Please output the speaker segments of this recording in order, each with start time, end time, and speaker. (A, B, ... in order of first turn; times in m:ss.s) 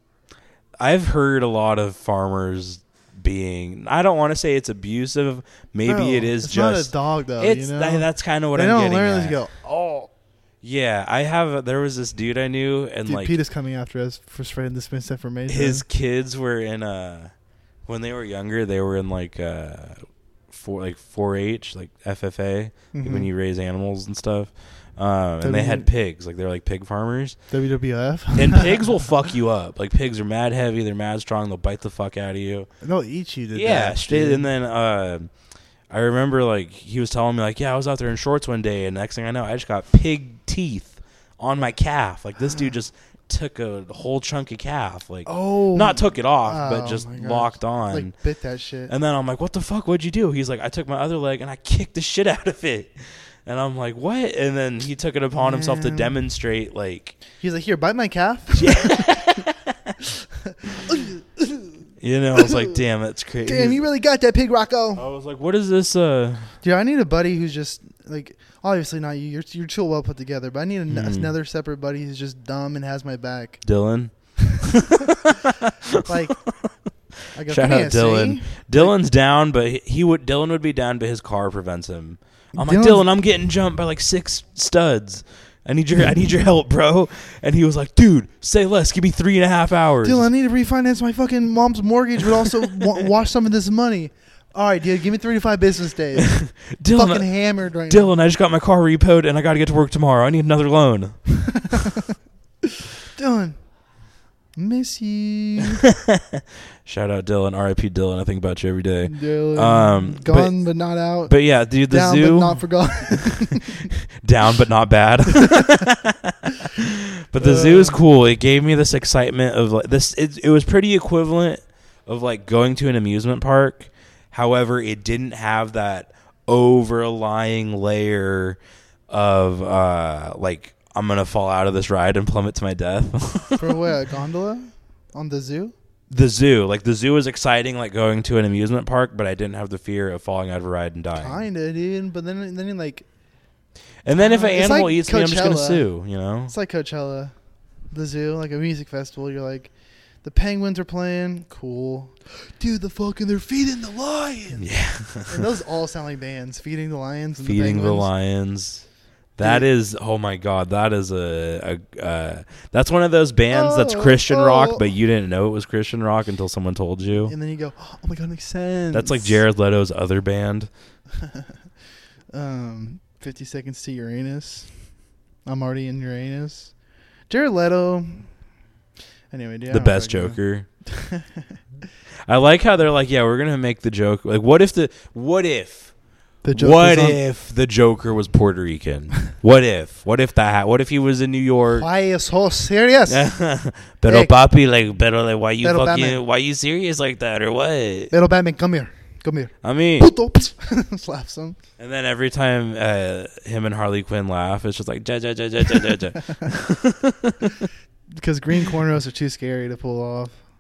0:00.8-0:09.4 A
0:05.8-0:10.1 B
0:10.6-0:13.3 A
0:13.0-0:15.8 B
0:15.5-0:17.3 A
0:17.8-0:27.4 A
0:22.9-0:23.3 B
0:25.4-0:25.9 B
0:27.5-0:28.8 B
0:28.3-0:32.7 A
0:32.8-0:34.5 B
0:33.5-0:35.3 A
0:35.9-0:48.2 A
0:45.2-0:48.9 B
0:48.9-0:57.2 A
0:55.4-0:56.2 B
0:57.4-0:59.1 B
0:58.5-1:00.0 A
1:00.4-1:02.8 B
1:00.8-1:01.1 A
1:02.0-1:03.8 A
1:03.4-1:05.0 B
1:05.0-1:06.5 A
1:06.6-1:13.6 B
1:10.9-1:11.3 A
1:13.6-1:16.5 A
1:16.0-1:16.4 B
1:17.3-1:18.9 B
1:17.5-1:30.3 A
1:22.5-1:23.0 B
1:30.0-1:38.1 B
1:36.2-1:41.7 A
1:43.1-1:43.6 B
1:44.6-1:45.8 B
1:45.9-1:50.7 A
1:49.0-1:51.3 B
1:51.2-2:13.8 A
1:51.9-1:53.9 B
1:57.4-1:58.0 B
2:13.6-2:15.7 B
2:16.1-2:21.4 A
2:21.2-2:23.0 B
2:24.0-2:26.5 A
2:24.2-2:25.9 B
2:26.5-2:27.3 B
2:27.9-2:34.7 B
2:34.6-2:35.4 A
2:35.2-2:38.1 B
2:37.4-2:38.8 A
2:39.4-2:47.3 A
2:39.4-2:39.7 B
2:43.5-2:44.8 B
2:47.2-2:49.4 B
2:48.9-2:50.7 A
2:51.2-2:51.5 B
2:52.3-2:54.8 B
2:55.4-2:56.7 B
2:57.3-2:58.3 B
2:59.3-3:01.6 B
2:59.7-3:00.7 A
3:02.3-3:05.9 A
3:06.4-3:07.2 B
3:06.5-3:11.9 A
3:11.8-3:13.3 B
3:13.1-3:18.1 A
3:14.0-3:14.3 B
3:15.6-3:16.2 B
3:18.1-3:21.6 B
3:19.6-3:20.1 A
3:21.8-3:27.7 A
3:26.2-3:26.4 B
3:28.2-3:30.4 B